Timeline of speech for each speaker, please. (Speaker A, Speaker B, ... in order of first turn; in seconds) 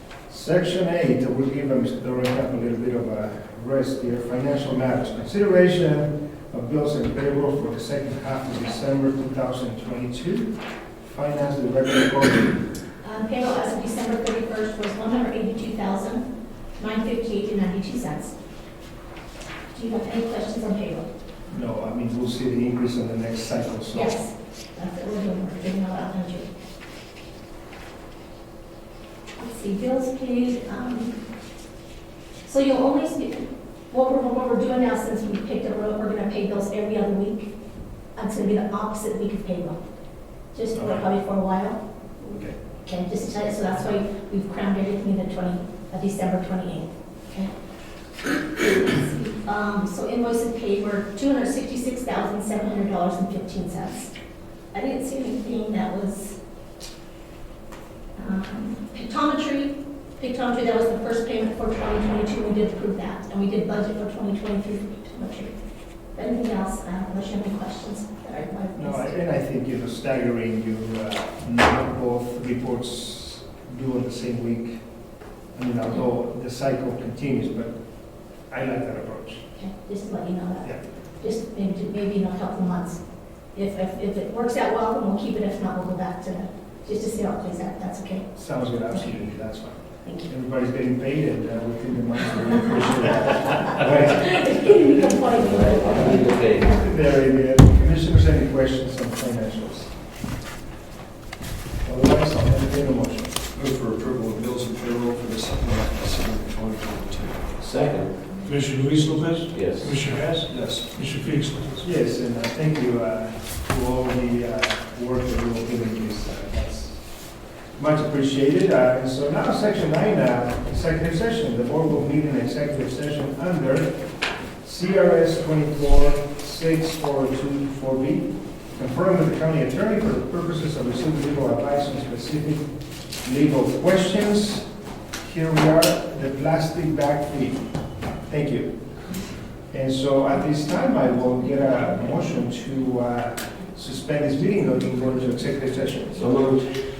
Speaker A: 0.3-12.6, 21.5-24.1, 40.7-41.0, 42.2-42.5, 68.7-74.8, 75.5-77.8, 78.5-79.4, 88.3-94.5, 96.0-100.0, 101.8-103.3, 111.8-124.0, 124.6-132.7, 133.2-134.7, 135.2-137.6, 138.2-138.7, 139.7-146.3
Speaker B: 13.0-16.2, 16.8-18.3, 19.7-21.1, 23.9-26.5, 29.4-31.1, 32.4-37.5, 38.1-39.8, 40.5-41.8, 42.8-47.5, 48.5-54.1, 54.7-56.4, 58.1-65.5, 66.1-69.1, 79.5-83.0, 83.5-88.3, 88.9-89.2, 90.0-90.3, 93.7-96.7
Speaker C: 95.3-96.7, 107.6-108.2, 109.5-110.0, 146.2-146.7
Speaker D: 103.5-107.6, 110.5-110.9
Speaker E: 108.4-111.8